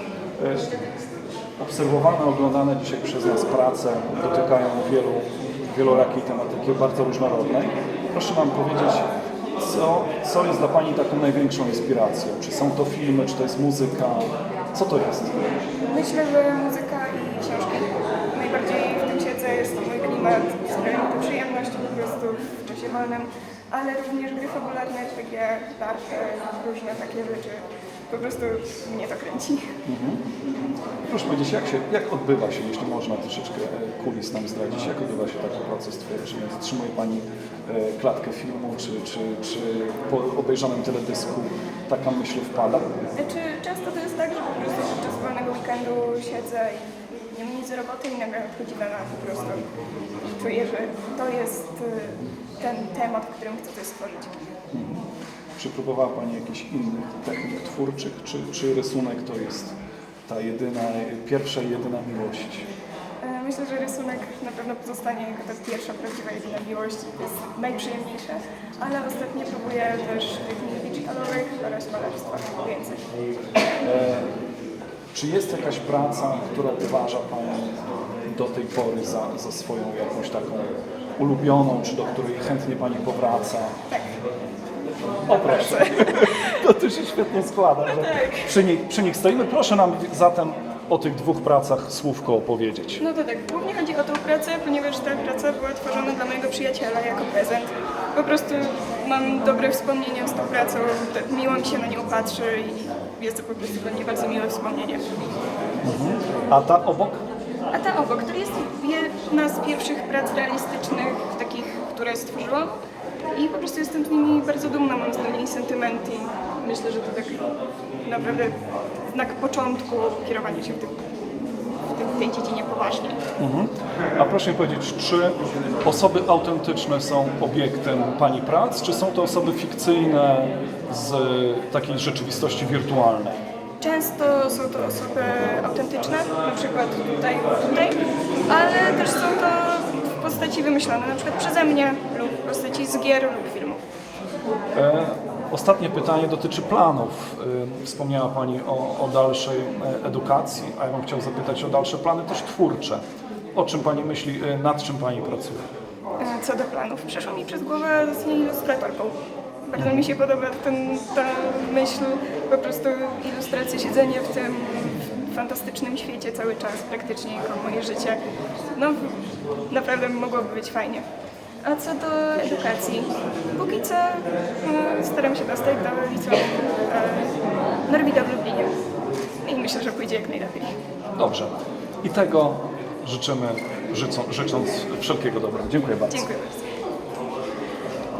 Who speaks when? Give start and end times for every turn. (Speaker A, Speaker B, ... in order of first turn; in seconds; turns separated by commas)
Speaker A: 0.4-0.8, Speaker A: 1.6-15.4, Speaker B: 15.9-29.8, Speaker A: 29.9-30.2, Speaker A: 31.0-42.9, Speaker B: 43.2-49.7, Speaker B: 50.4-54.4, Speaker A: 54.7-59.8, Speaker A: 60.3-62.7, Speaker B: 63.2-73.0, Speaker A: 73.8-74.3, Speaker A: 75.1-83.8, Speaker A: 85.3-93.0, Speaker B: 85.3-86.6, Speaker B: 87.9-88.5, Speaker B: 93.0-105.0, Speaker A: 105.8-107.2, Speaker B: 107.7-112.8, Speaker B: 113.3-117.5, Speaker B: 118.0-118.6, Speaker B: 119.1-121.0, Speaker B: 121.8-123.2, Speaker A: 123.4-133.4, Speaker B: 133.8-143.8, Speaker A: 144.7-153.0, Speaker A: 153.5-155.7, Speaker B: 156.2-168.2, Speaker A: 159.8-160.1, Speaker B: 168.7-171.1, Speaker B: 171.6-177.3, Speaker B: 177.9-178.8, Speaker B: 179.4-180.7, Speaker A: 181.2-186.3, Speaker B: 186.1-186.7